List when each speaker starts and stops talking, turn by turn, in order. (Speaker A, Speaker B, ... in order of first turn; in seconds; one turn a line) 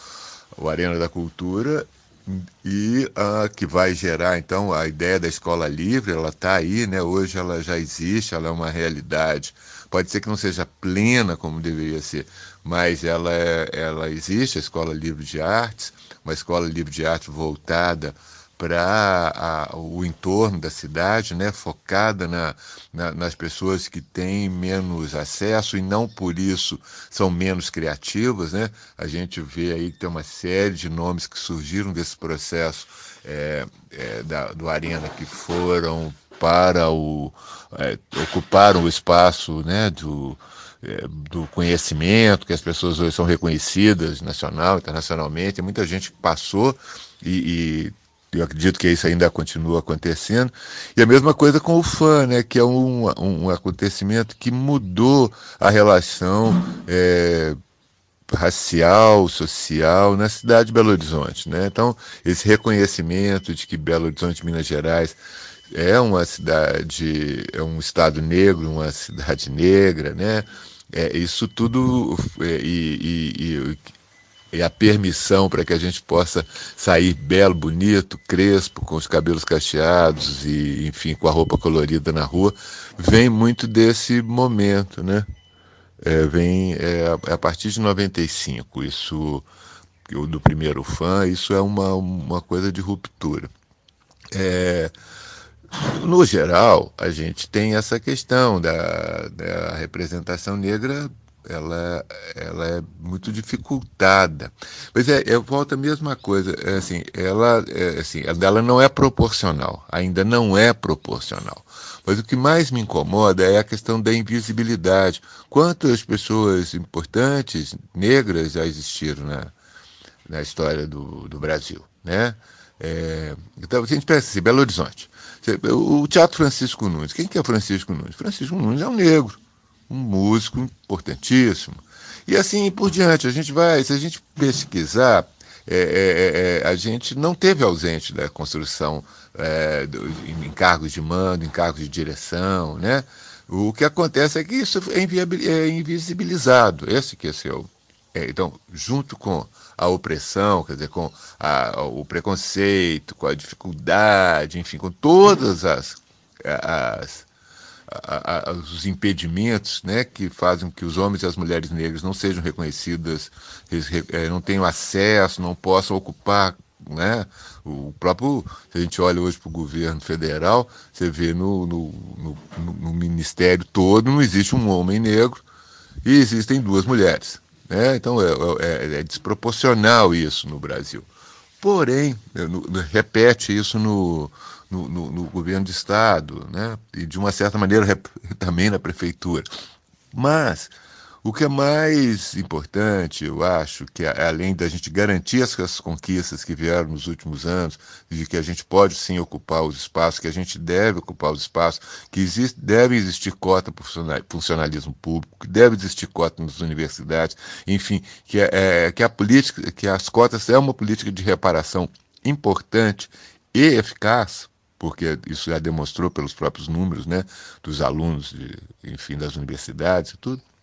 Speaker A: 0.5-57.5
Speaker A: 58.3-65.2
Speaker A: 65.7-73.8
Speaker A: 74.5-85.2
Speaker A: 86.0-89.5
Speaker A: 90.1-93.5
Speaker A: 94.3-94.9
Speaker A: 95.7-119.5
Speaker A: 120.2-157.3
Speaker A: 157.9-175.4
Speaker A: 176.0-181.1
Speaker A: 181.6-189.5
Speaker A: 190.1-220.4